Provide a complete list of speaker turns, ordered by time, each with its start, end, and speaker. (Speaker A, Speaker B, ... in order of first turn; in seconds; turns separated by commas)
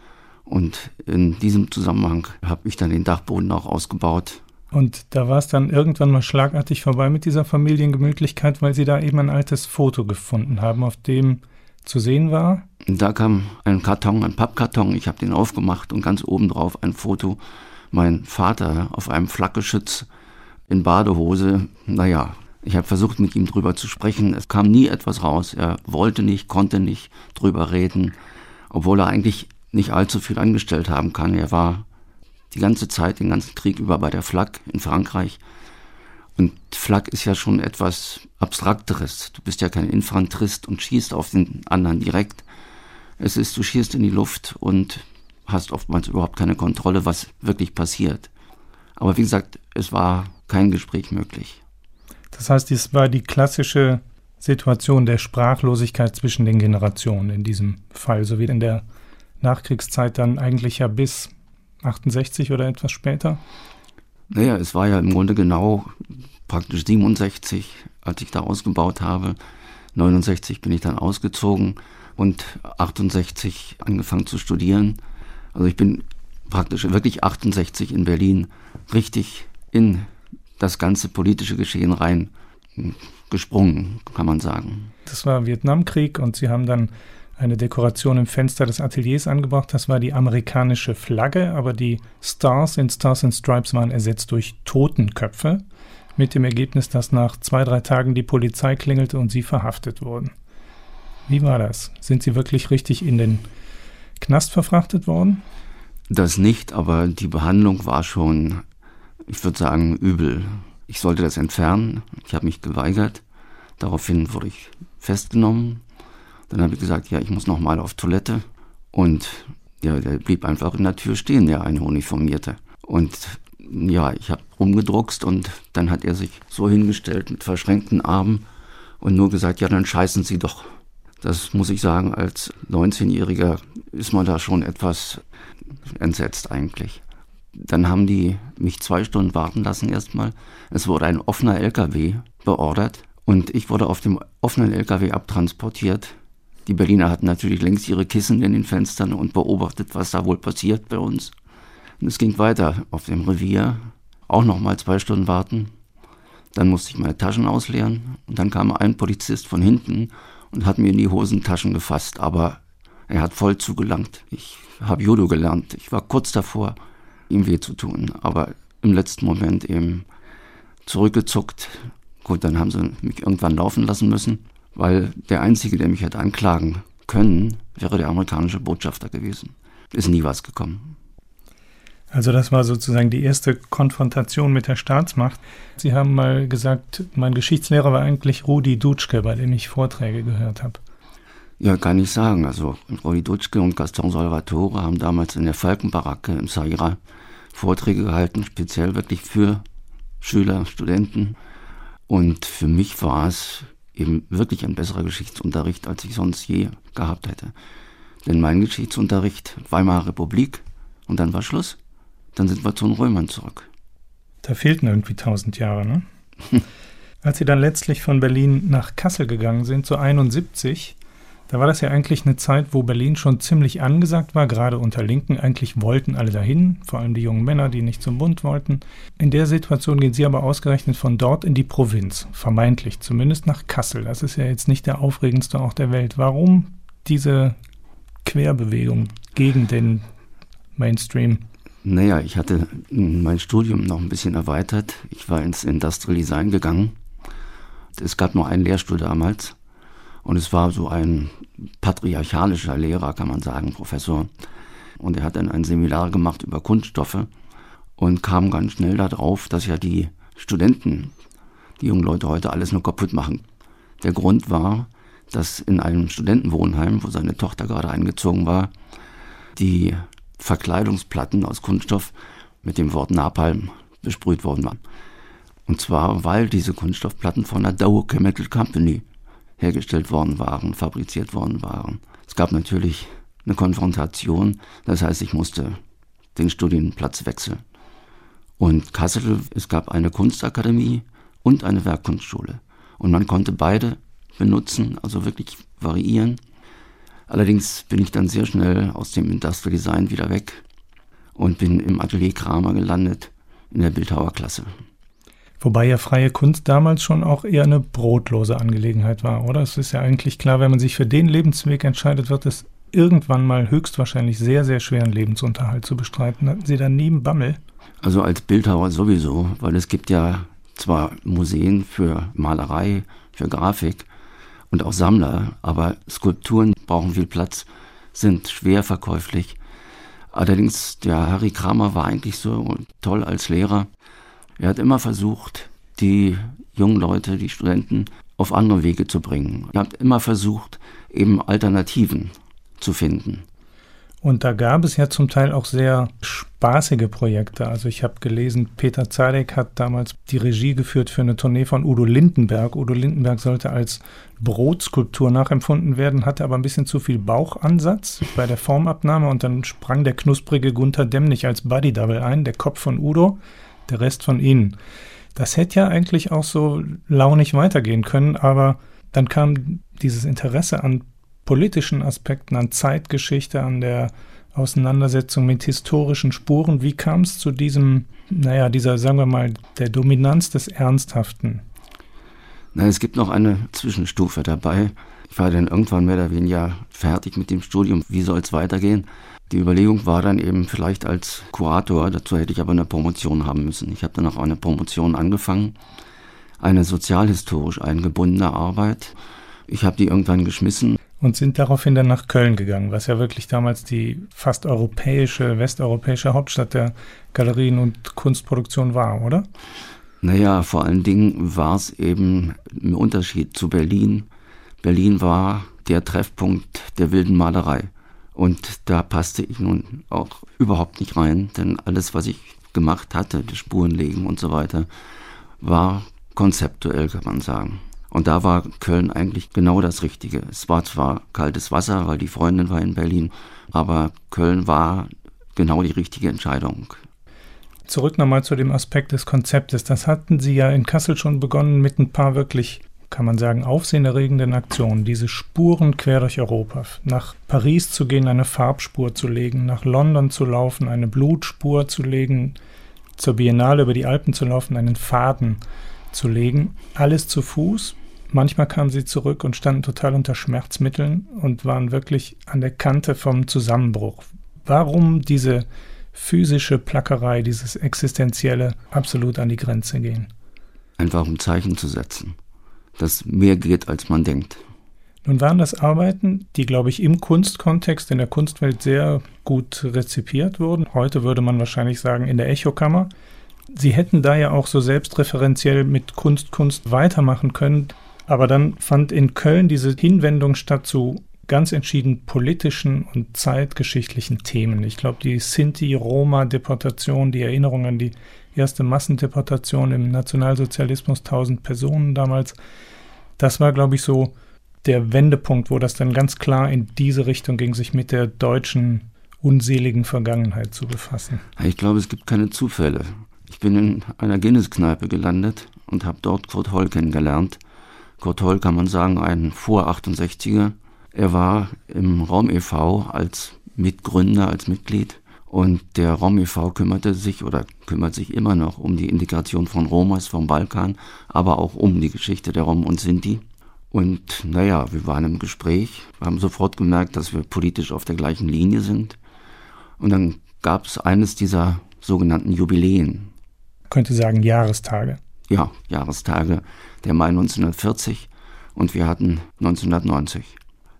Speaker A: 0.5-4.4, Speaker B: 4.7-12.7, Speaker A: 12.8-17.4, Speaker A: 17.9-20.1, Speaker A: 20.7-28.1, Speaker A: 28.7-31.9, Speaker A: 32.5-35.4, Speaker A: 36.4-42.4, Speaker A: 43.2-48.3, Speaker A: 49.0-51.6, Speaker B: 52.3-58.8, Speaker B: 59.4-63.4, Speaker A: 64.3-69.4, Speaker A: 69.9-75.0, Speaker A: 75.5-80.1, Speaker A: 80.6-84.9, Speaker B: 85.0-95.6, Speaker B: 96.2-100.3, Speaker B: 101.3-103.4, Speaker B: 104.2-105.4, Speaker A: 106.1-108.6, Speaker A: 109.3-113.2, Speaker A: 113.8-115.8, Speaker A: 116.5-128.4, Speaker A: 129.0-135.2, Speaker A: 135.8-137.0, Speaker A: 137.5-151.3, Speaker A: 152.0-155.7, Speaker A: 156.5-166.8, Speaker A: 167.3-170.1, Speaker A: 170.8-180.9, Speaker B: 182.1-190.8, Speaker A: 191.6-197.0, Speaker A: 197.5-199.6, Speaker A: 200.2-201.4, Speaker A: 202.1-207.5, Speaker A: 208.2-211.8, Speaker A: 212.3-213.7, Speaker B: 214.4-216.0, Speaker B: 217.2-220.9, Speaker B: 221.5-237.6, Speaker B: 238.2-240.0, Speaker B: 240.8-241.4, Speaker A: 241.8-246.9, Speaker A: 247.9-249.6, Speaker A: 250.2-254.3, Speaker A: 255.0-257.3, Speaker A: 258.0-261.1, Speaker A: 261.8-263.4, Speaker A: 264.0-268.7, Speaker A: 269.6-274.8, Speaker A: 275.6-279.0, Speaker A: 279.6-285.8, Speaker A: 286.3-287.6, Speaker A: 288.6-296.4, Speaker A: 297.3-300.6, Speaker A: 301.4-304.7, Speaker B: 305.6-317.6, Speaker A: 318.0-324.1, Speaker A: 324.7-329.6, Speaker A: 330.3-333.9, Speaker A: 334.6-343.4, Speaker B: 344.2-364.8, Speaker B: 365.3-381.6, Speaker A: 382.7-395.8, Speaker A: 396.6-399.1, Speaker A: 399.7-401.0, Speaker B: 401.2-409.5, Speaker A: 410.2-414.3, Speaker A: 414.8-424.9, Speaker A: 425.6-437.0, Speaker B: 437.9-452.6, Speaker B: 453.2-455.6, Speaker B: 456.1-470.3, Speaker A: 471.0-472.4, Speaker A: 473.0-474.6, Speaker B: 475.2-483.1, Speaker B: 483.7-502.6, Speaker B: 503.4-504.3, Speaker B: 504.8-511.4, Speaker A: 511.6-517.6, Speaker A: 518.2-539.2, Speaker A: 540.0-543.3, Speaker B: 543.9-545.2, Speaker A: 545.5-550.6